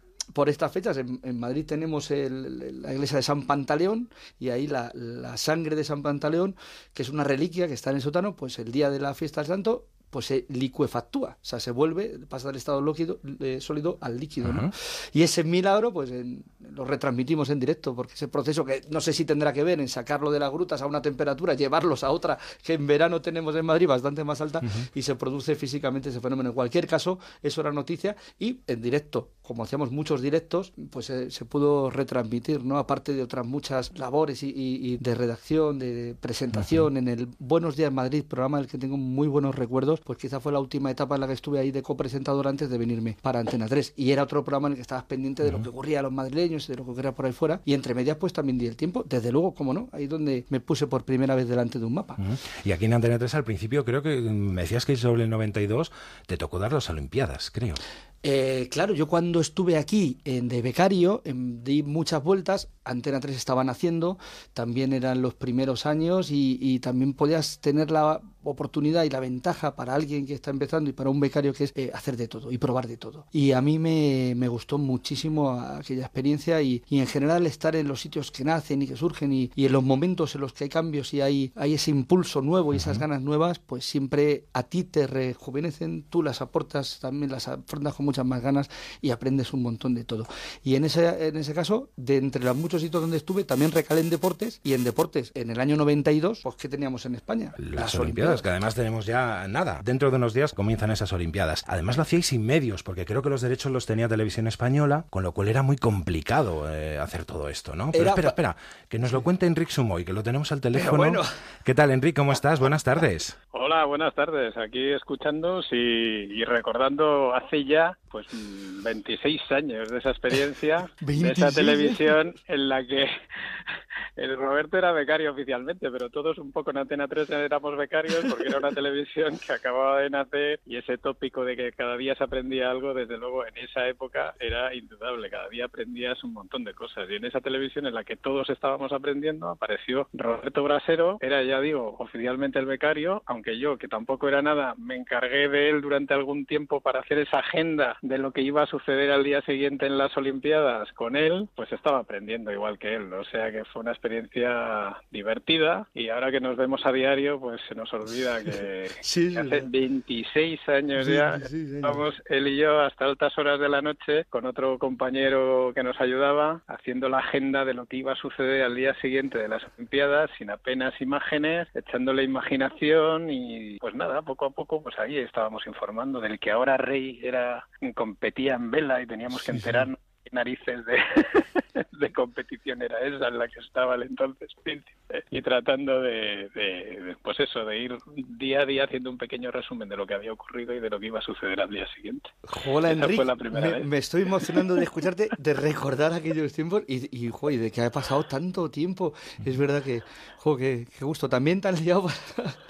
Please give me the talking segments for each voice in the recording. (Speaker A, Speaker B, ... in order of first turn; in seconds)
Speaker A: 0.3-52.2, 58.2-98.5, 107.9-108.4, 110.7-111.3, 121.0-122.1, 159.0-159.7, 161.0-162.0, 179.5-179.9, 192.5-202.6
Speaker B: 14.4-14.7, 36.6-36.9, 52.2-57.8, 82.7-83.0, 97.6-113.4
Speaker C: 113.5-123.1, 124.2-193.9, 194.4-194.8